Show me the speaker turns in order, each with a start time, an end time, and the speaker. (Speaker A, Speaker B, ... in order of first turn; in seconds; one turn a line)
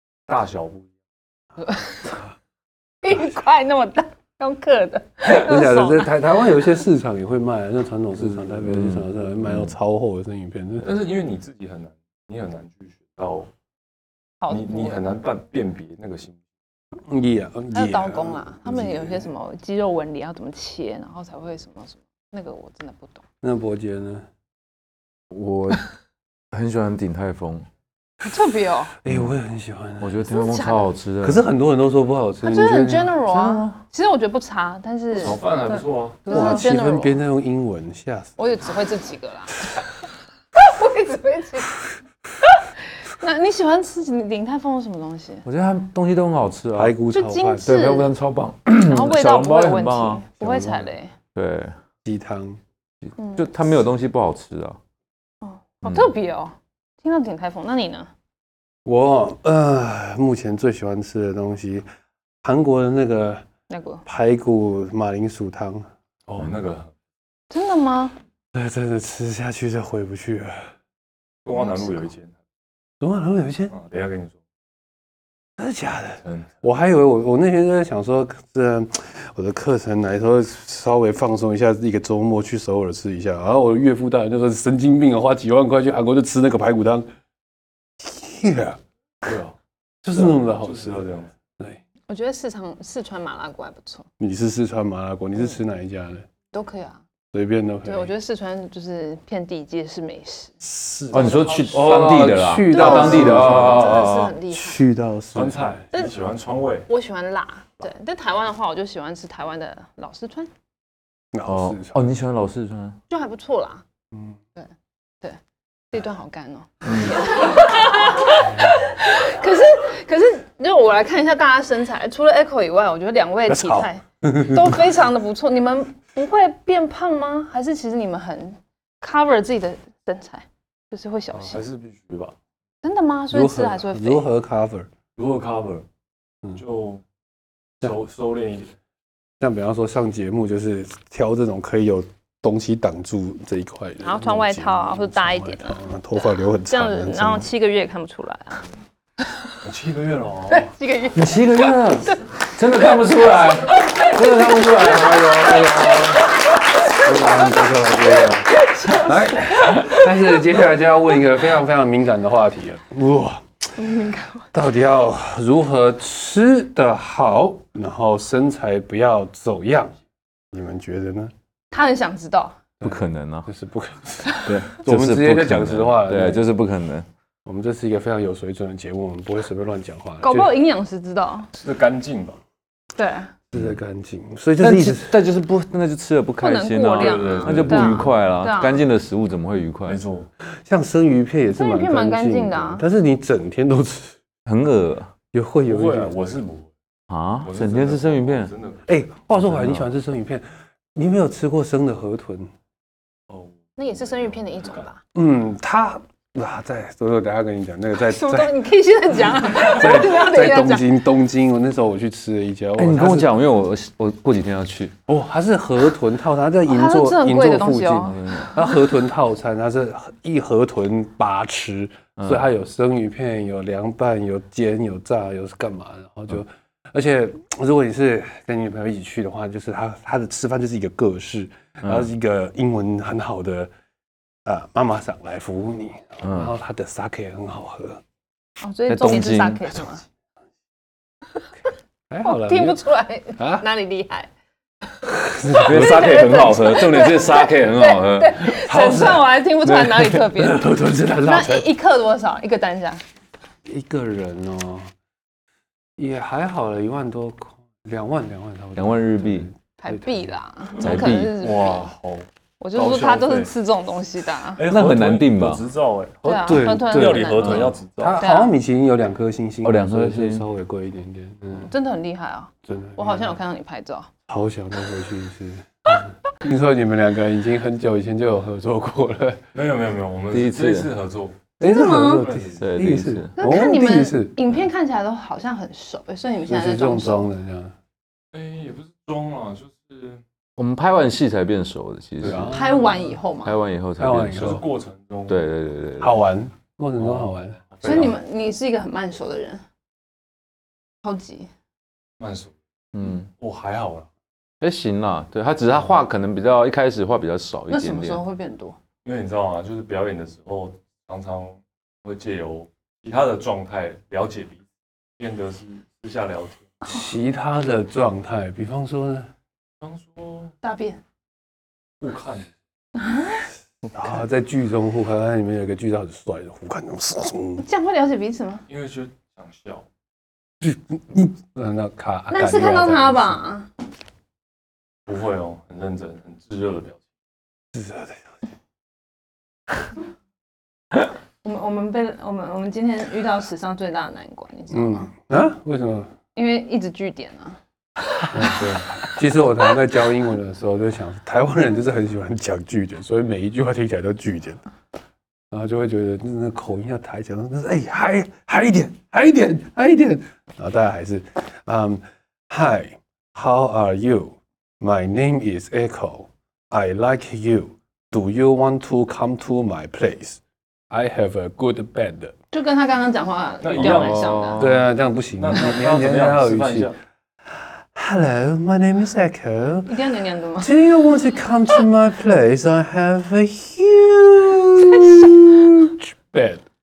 Speaker A: 0.3-0.9
Speaker B: 1.6-2.1
Speaker B: 3.0-6.1
Speaker C: 5.3-10.9
Speaker D: 8.8-9.7
Speaker A: 10.8-13.5
Speaker B: 14.4-15.1
Speaker A: 14.5-16.4
Speaker C: 17.1-19.3
Speaker B: 17.7-23.2
Speaker C: 23.4-24.3
Speaker D: 25.3-25.9
Speaker D: 26.5-27.7
Speaker B: 28.2-28.9
Speaker C: 29.0-30.2
Speaker D: 29.1-29.3
Speaker D: 30.0-31.4
Speaker B: 30.3-30.9
Speaker C: 31.2-33.7
Speaker B: 32.4-37.2
Speaker A: 35.1-36.5
Speaker C: 36.2-38.4
Speaker B: 38.4-39.7
Speaker B: 40.6-41.8
Speaker B: 42.4-45.5
Speaker D: 45.5-47.0
Speaker C: 46.8-47.8
Speaker B: 47.1-48.1
Speaker D: 47.6-50.3
Speaker B: 48.8-51.1
Speaker C: 50.4-50.9
Speaker D: 51.4-51.8
Speaker C: 52.0-52.6
Speaker B: 53.2-53.5
Speaker D: 53.4-54.8
Speaker B: 55.4-58.1
Speaker C: 58.9-61.9
Speaker C: 62.4-63.5
Speaker B: 63.7-64.0
Speaker C: 64.1-65.9
Speaker A: 66.3-66.9
Speaker B: 67.5-68.2
Speaker C: 68.5-70.7
Speaker A: 71.5-72.3
Speaker B: 71.5-72.0
Speaker C: 73.0-73.8
Speaker A: 73.7-74.4
Speaker C: 75.6-87.1
Speaker A: 76.2-76.6
Speaker C: 88.0-88.8
Speaker A: 89.2-89.6
Speaker C: 90.0-91.8
Speaker A: 90.1-91.3
Speaker B: 92.1-94.1
Speaker C: 94.2-96.3
Speaker B: 96.5-97.0
Speaker C: 97.3-98.1
Speaker B: 97.8-100.5
Speaker C: 100.6-105.8
Speaker D: 101.1-104.3
Speaker B: 102.7-104.9
Speaker A: 103.0-103.8
Speaker A: 105.3-106.9
Speaker B: 106.9-110.5
Speaker C: 111.3-112.0
Speaker D: 111.5-113.0
Speaker B: 113.1-113.8
Speaker B: 115.9-131.6
Speaker D: 116.8-117.2
Speaker C: 123.5-124.8
Speaker A: 131.3-132.3
Speaker B: 132.8-134.3
Speaker C: 133.3-134.9
Speaker A: 135.2-135.9
Speaker A: 136.5-137.0
Speaker A: 137.8-138.7
Speaker C: 139.4-147.5
Speaker B: 144.0-145.8
Speaker B: 146.7-148.6
Speaker A: 149.6-150.7
Speaker B: 150.5-152.2
Speaker D: 151.1-156.2
Speaker B: 153.8-154.2
Speaker C: 155.4-156.0
Speaker C: 157.0-163.4
Speaker B: 158.6-160.0
Speaker B: 163.8-164.5
Speaker C: 164.5-170.0
Speaker C: 170.5-171.3
Speaker B: 171.7-172.6
Speaker D: 172.8-173.5
Speaker C: 172.8-176.4
Speaker D: 174.4-177.1
Speaker C: 177.4-180.5
Speaker B: 180.2-181.5
Speaker A: 181.6-182.4
Speaker B: 183.0-183.3
Speaker C: 183.5-185.1
Speaker D: 184.6-190.0
Speaker B: 186.4-188.8
Speaker A: 187.0-188.1
Speaker A: 189.9-190.3
Speaker C: 190.7-194.2
Speaker B: 191.5-192.8
Speaker D: 194.5-195.1
Speaker C: 195.3-196.2
Speaker A: 195.7-196.7
Speaker D: 197.1-198.5
Speaker A: 197.4-198.9
Speaker C: 198.9-202.5
Speaker D: 199.4-199.9
Speaker A: 203.3-204.8
Speaker B: 203.8-205.0
Speaker C: 205.2-208.5
Speaker B: 208.0-210.9
Speaker C: 209.5-213.3
Speaker D: 212.8-214.9
Speaker C: 215.1-233.7
Speaker B: 216.7-218.4
Speaker D: 218.2-218.5
Speaker D: 222.2-222.4
Speaker C: 234.5-238.0
Speaker D: 236.2-236.5
Speaker B: 238.6-240.1
Speaker D: 238.9-239.7
Speaker C: 242.1-242.8
Speaker B: 242.2-244.3
Speaker C: 243.4-243.7
Speaker C: 245.1-246.4
Speaker B: 245.5-253.0
Speaker D: 245.6-248.6
Speaker C: 248.6-251.7
Speaker C: 253.7-254.9
Speaker C: 256.0-260.3
Speaker D: 258.8-259.5
Speaker B: 259.8-261.9
Speaker D: 260.8-261.4
Speaker A: 260.8-263.5
Speaker B: 262.6-264.6
Speaker A: 264.6-268.2
Speaker D: 264.7-265.6
Speaker B: 266.2-268.5
Speaker C: 266.3-267.4
Speaker D: 267.4-267.7
Speaker C: 268.0-271.7
Speaker D: 269.6-270.5
Speaker B: 271.6-274.1
Speaker C: 272.7-273.3
Speaker C: 274.3-279.4
Speaker A: 279.5-281.4
Speaker D: 280.3-280.9
Speaker C: 281.6-284.4
Speaker B: 281.6-282.3
Speaker A: 282.0-282.6
Speaker D: 282.6-283.4
Speaker B: 283.4-287.3
Speaker C: 286.5-287.8
Speaker A: 288.3-290.2
Speaker D: 290.6-292.5
Speaker A: 292.2-292.5
Speaker C: 292.2-292.8
Speaker B: 292.5-293.6
Speaker D: 293.4-294.6
Speaker C: 294.0-294.7
Speaker A: 294.3-295.5
Speaker D: 295.3-296.1
Speaker C: 296.0-297.6
Speaker A: 297.0-298.2
Speaker B: 297.8-299.6
Speaker B: 301.0-301.5
Speaker A: 302.2-302.5
Speaker D: 302.9-303.3
Speaker A: 303.4-304.1
Speaker D: 304.6-308.2
Speaker B: 307.7-308.8
Speaker A: 309.0-314.6
Speaker A: 315.2-316.8
Speaker C: 316.9-319.3
Speaker A: 319.8-320.5
Speaker B: 320.6-321.0
Speaker A: 322.0-322.5
Speaker B: 323.0-323.5
Speaker C: 323.9-327.6
Speaker B: 327.6-328.6
Speaker A: 328.7-329.9
Speaker C: 330.6-333.4
Speaker B: 332.3-333.7
Speaker A: 335.1-337.0
Speaker C: 337.7-338.3
Speaker B: 341.4-345.1
Speaker C: 344.7-346.1
Speaker B: 346.4-347.6
Speaker C: 348.3-354.6
Speaker C: 355.5-372.4
Speaker B: 372.5-374.6
Speaker A: 373.6-374.7
Speaker D: 373.9-374.9
Speaker C: 374.6-376.9
Speaker A: 375.4-377.0
Speaker C: 377.9-379.9
Speaker B: 379.9-380.7
Speaker C: 380.6-386.6
Speaker B: 384.9-385.4